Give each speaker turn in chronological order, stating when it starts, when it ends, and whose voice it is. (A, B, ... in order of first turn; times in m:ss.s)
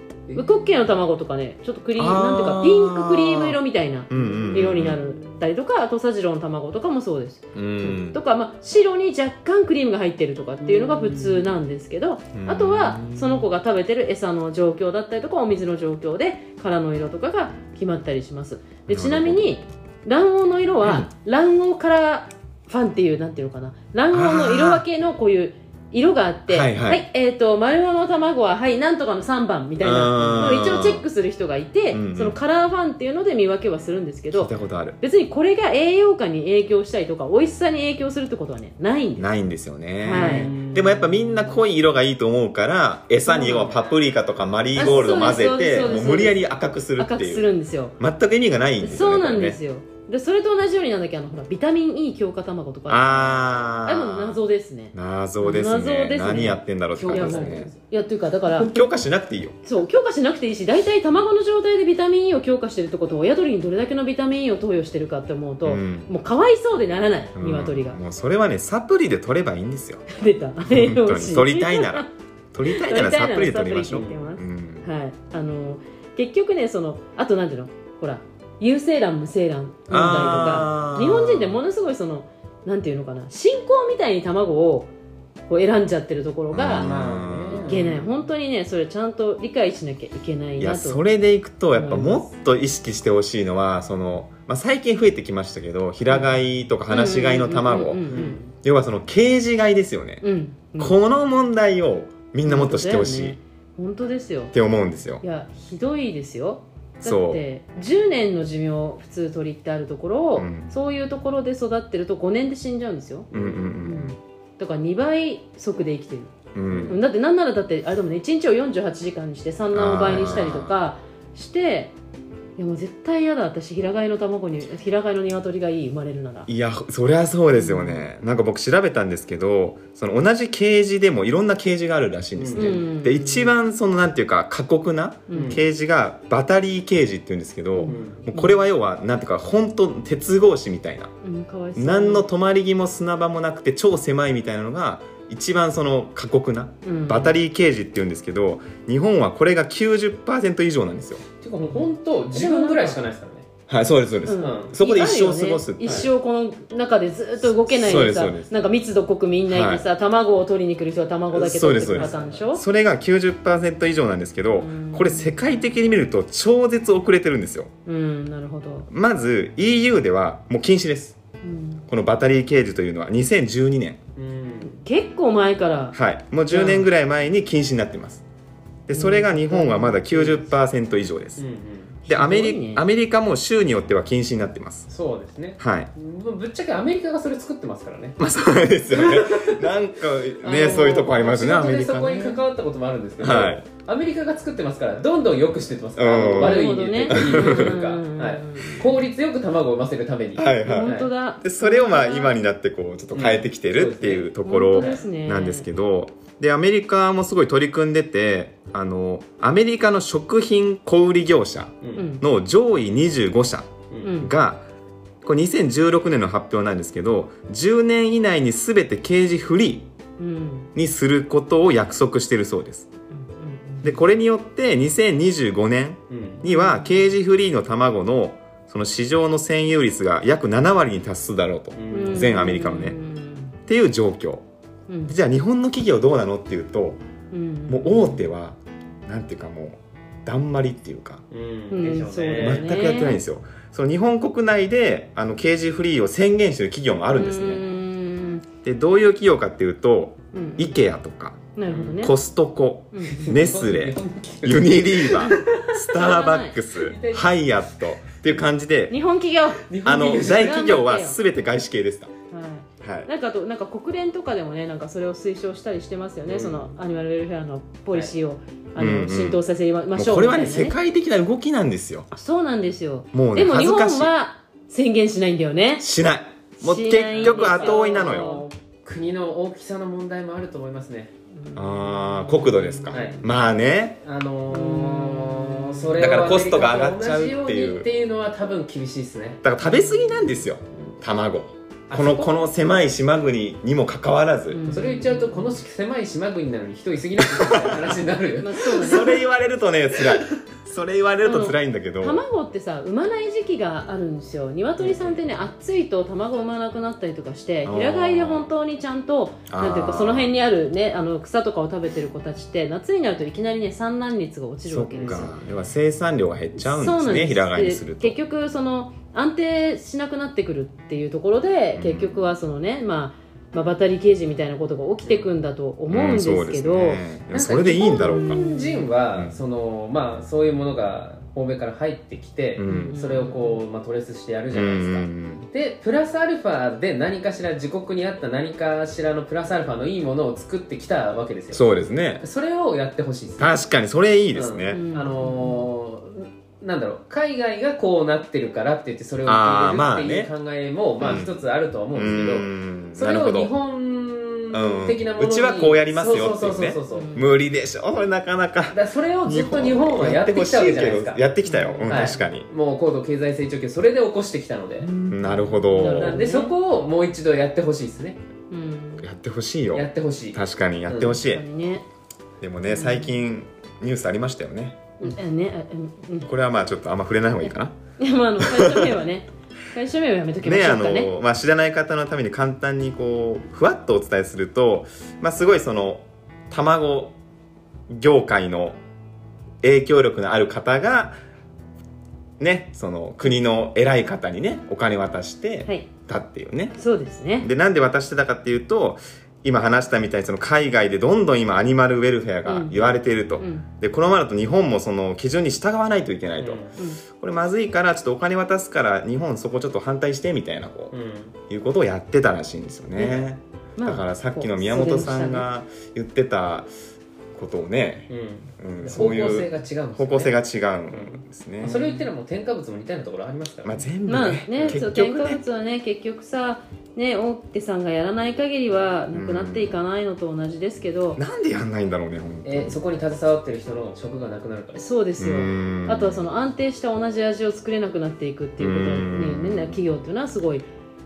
0:00.3-0:00.6 A
0:00.3-0:39.3 B
0:02.0-0:03.6 C
0:04.1-0:05.0 C
0:04.2-0:05.3 A
0:07.5-0:08.2 C
0:10.6-0:11.5 A
0:12.3-0:13.5 C
0:18.9-0:19.5 C
0:20.8-0:21.1 C
0:24.1-0:24.8 C
0:26.5-0:27.0 C
0:29.8-0:31.0 C
0:30.2-0:30.6 A
0:31.9-0:32.4 C
0:34.3-0:35.0 C
0:39.2-0:49.6 C
0:40.0-0:40.5 B
0:40.1-0:41.6 A
0:43.2-0:43.8 B
0:43.5-0:43.9 A
0:44.7-0:48.0 B
0:44.8-0:45.1 A
0:48.8-0:58.8 B
0:52.9-0:54.4 C
0:54.9-0:57.7 C
0:57.0-0:57.8 A
0:58.6-0:59.6 C
0:59.6-1:08.0 B
1:05.6-1:06.1 C
1:07.4-1:10.0 C
1:10.1-1:12.1 B
1:10.6-1:14.8 C
1:12.7-1:24.9 B
1:19.9-1:21.6 C
1:25.5-1:26.9 B
1:26.5-1:27.8 C
1:26.7-1:28.1 A
1:27.5-1:31.0 B
1:30.6-1:40.2 C
1:31.7-1:32.3 B
1:36.1-1:36.3 B
1:36.9-1:38.4 B
1:38.1-1:38.5 A
1:40.2-1:41.0 B
1:40.8-1:43.4 C
1:42.4-1:44.5 B
1:44.5-1:45.2 C
1:45.2-1:53.3 B
1:47.0-1:47.4 C
1:50.4-1:50.7 C
1:53.3-1:53.6 A
1:53.3-1:54.1 C
1:53.8-1:56.3 B
1:56.5-1:57.0 C
1:56.7-1:57.0 A
1:56.9-2:01.9 B
1:59.7-2:00.8 C
2:02.6-2:06.5 B
2:06.5-2:21.1 C
2:07.6-2:08.0 B
2:12.4-2:12.8 A
2:12.5-2:13.5 B
2:15.3-2:15.6 B
2:15.3-2:15.6 A
2:17.7-2:18.6 B
2:17.9-2:18.2 A
2:21.2-2:22.3 B
2:21.7-2:31.2 C
2:26.8-2:27.4 B
2:31.4-2:33.5 A
2:31.7-2:33.0 B
2:33.7-2:36.1 C
2:34.2-2:42.6 B
2:34.4-2:34.7 A
2:37.4-2:38.5 C
2:39.5-2:39.8 C
2:41.3-2:47.7 C
2:41.9-2:42.4 A
2:44.5-2:45.5 B
2:47.8-2:48.9 B
2:48.9-2:51.2 C
2:51.4-2:51.8 B
2:51.9-2:54.0 C
2:54.2-2:54.8 A
2:54.6-2:56.0 B
2:55.9-2:58.2 C
2:56.5-2:56.8 B
2:56.5-2:56.8 A
2:58.9-3:01.4 C
2:58.9-3:00.4 B
3:01.4-3:02.0 A
3:02.1-3:04.9 C
3:02.1-3:02.8 B
3:04.9-3:08.2 A
3:05.6-3:05.9 C
3:08.2-3:12.4 C
3:08.9-3:09.7 A
3:10.4-3:21.1 A
3:13.2-3:13.6 C
3:16.0-3:17.8 C
3:16.4-3:18.9 B
3:20.4-3:34.6 C
3:20.5-3:22.4 B
3:23.1-3:25.0 A
3:24.4-3:25.7 B
3:31.8-3:32.1 A
3:32.0-3:32.2 B
3:34.0-3:34.3 B
3:35.2-3:39.9 C
3:40.2-3:40.7 B
3:40.7-3:42.9 C
3:43.1-3:44.0 B
3:43.8-3:53.0 C
3:46.1-3:46.4 A
3:46.4-3:47.1 B
3:51.7-3:52.4 A
3:51.9-3:53.5 B
3:53.6-3:54.4 C
3:54.9-3:55.1 B
3:55.1-3:57.0 C
3:57.3-3:58.2 B
3:57.7-4:01.2 C
4:01.3-4:02.6 A
4:01.7-4:03.2 B
4:02.4-4:07.6 C
4:07.1-4:08.4 B
4:08.6-4:19.0 C
4:10.3-4:10.8 B
4:11.5-4:12.2 B
4:11.7-4:12.0 A
4:12.9-4:13.3 B
4:13.1-4:15.8 A
4:15.4-4:16.6 B
4:16.7-4:17.5 A
4:18.9-4:21.2 B
4:19.7-4:20.7 A
4:19.8-4:22.1 C
4:22.3-4:30.8 B
4:22.8-4:23.1 C
4:26.2-4:26.8 A
4:28.8-4:29.4 C
4:29.9-4:32.1 C
4:32.1-4:35.9 B
4:33.1-4:34.1 C
4:35.8-4:38.4 C
4:36.6-4:38.5 B
4:37.1-4:41.1 A
4:41.3-4:43.2 B
4:41.5-4:44.0 C
4:42.9-4:43.2 A
4:44.0-4:49.4 A
4:44.5-4:46.1 B
4:46.0-4:47.9 C
4:49.4-4:54.6 C
4:49.6-4:50.9 B
4:51.9-4:52.4 A
4:54.5-4:55.6 B
4:54.7-4:59.0 A
4:57.2-4:58.0 C
4:58.4-4:59.2 B
4:58.6-5:02.2 C
5:01.2-5:15.3 B
5:04.8-5:05.2 A
5:07.6-5:08.5 C
5:09.5-5:10.3 C
5:14.7-5:18.2 C
5:14.9-5:15.3 A
5:16.6-5:27.0 B
5:21.7-5:22.3 C
5:25.0-5:25.3 A
5:25.9-5:28.4 C
5:27.3-5:41.7 A
5:27.8-5:28.9 B
5:29.1-5:29.4 C
5:32.6-5:33.0 C
5:32.6-5:33.6 B
5:34.5-5:35.4 C
5:41.5-5:42.2 C
5:42.2-5:43.6 A
5:43.4-5:44.8 C
5:44.3-5:57.1 A
5:44.7-5:45.6 B
5:49.2-5:50.3 C
5:51.0-5:51.3 C
5:51.9-5:53.5 C
5:54.5-6:02.5 C
5:56.9-5:57.3 B
5:58.7-6:01.2 A
6:01.4-6:02.2 B
6:01.9-6:04.9 A
6:04.9-6:06.2 C
6:05.0-6:06.5 B
6:05.9-6:08.2 A
6:08.5-6:09.1 B
6:09.0-6:11.4 C
6:09.7-6:11.2 A
6:11.2-6:11.8 B
6:12.4-6:14.8 C
6:12.6-6:13.2 B
6:15.0-6:16.3 B
6:16.2-6:17.8 C
6:18.0-6:21.1 B
6:18.4-6:19.0 C
6:20.4-6:27.2 C
6:27.9-6:28.8 C
6:29.6-6:31.1 C
6:32.4-6:36.8 C
6:36.8-6:37.5 B
6:37.4-6:50.9 C
6:42.4-6:43.7 B
6:46.4-6:46.7 A
6:46.8-6:47.0 B
6:50.9-6:51.3 A
6:51.5-6:56.7 C
6:53.0-6:53.2 B
6:53.8-6:55.5 B
6:57.3-7:02.1 C
6:58.1-7:00.3 A
7:00.9-7:03.9 A
7:03.6-7:05.4 C
7:04.1-7:11.2 B
7:04.5-7:04.8 A
7:09.1-7:09.8 C
7:11.2-7:12.8 C
7:12.4-7:14.8 A
7:14.8-7:20.6 B
7:15.2-7:16.3 C
7:18.6-7:19.8 C